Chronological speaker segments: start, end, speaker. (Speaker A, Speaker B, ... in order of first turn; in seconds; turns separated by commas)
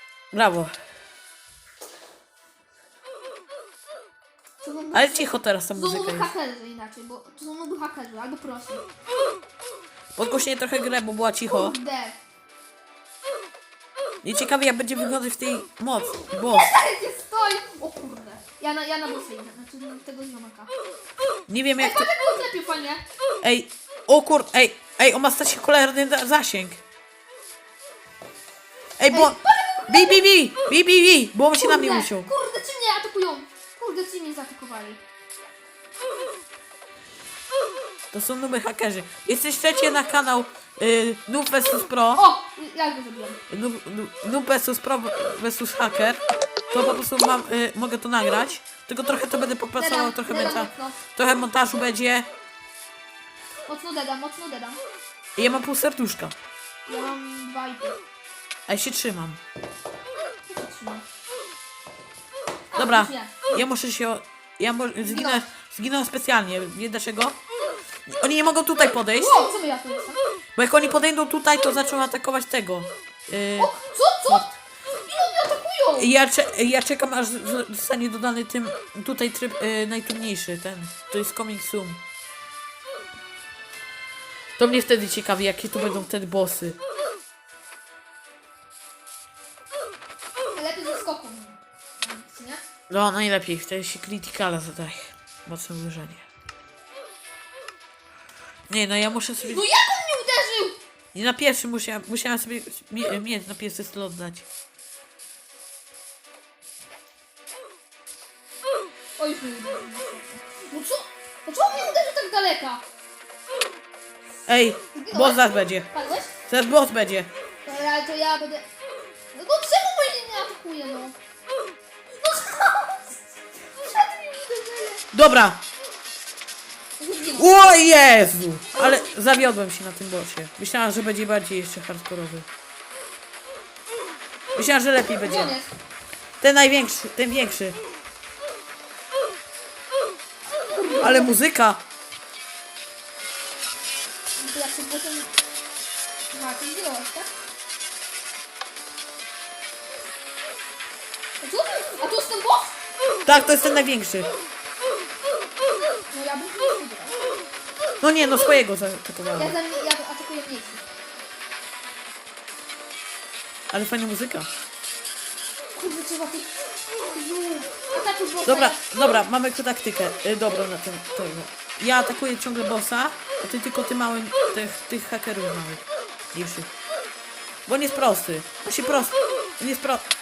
Speaker A: 0.3-0.7, Speaker B: 4.6-8.8, Speaker A: 4.9-6.3, Speaker A: 10.2-11.8, Speaker B: 11.5-12.2, Speaker A: 14.2-16.7, Speaker B: 16.4-20.7, Speaker A: 21.5-22.1, Speaker B: 21.8-23.0, Speaker A: 23.4-26.8, Speaker A: 29.0-32.3, Speaker B: 29.1-30.2, Speaker B: 31.6-35.0, Speaker A: 38.1-42.2, Speaker B: 42.1-43.4, Speaker A: 43.5-52.3, Speaker B: 49.8-51.0, Speaker B: 53.6-54.8, Speaker A: 55.4-56.3, Speaker B: 56.9-58.0, Speaker A: 58.7-59.4, Speaker B: 60.5-61.0, Speaker B: 62.7-63.7, Speaker A: 62.8-67.4, Speaker B: 65.0-65.4, Speaker A: 68.1-69.4, Speaker B: 69.2-70.2, Speaker A: 70.5-73.7, Speaker B: 73.6-76.1, Speaker A: 76.0-82.0, Speaker A: 84.6-86.8, Speaker B: 90.5-92.6, Speaker A: 92.9-96.2, Speaker A: 98.7-99.6, Speaker B: 99.4-100.8, Speaker A: 101.1-104.5, Speaker B: 109.2-112.8, Speaker A: 114.5-115.9, Speaker B: 114.9-116.3, Speaker A: 116.5-117.3, Speaker B: 117.6-118.7, Speaker B: 119.3-121.2, Speaker B: 122.2-123.2, Speaker B: 123.8-125.0, Speaker A: 125.1-125.6, Speaker B: 127.0-127.5, Speaker A: 127.3-132.4, Speaker B: 128.7-129.4, Speaker A: 134.5-135.6, Speaker B: 135.2-135.7, Speaker A: 136.4-137.8, Speaker B: 140.6-141.4, Speaker A: 141.0-141.8, Speaker B: 144.4-145.3, Speaker B: 146.3-147.3, Speaker B: 151.4-152.8, Speaker A: 153.2-154.3, Speaker B: 156.1-157.2, Speaker A: 158.0-159.5, Speaker B: 159.3-160.8, Speaker A: 163.7-164.5, Speaker B: 165.7-169.2, Speaker A: 168.4-175.8, Speaker A: 176.3-176.7, Speaker A: 177.7-180.0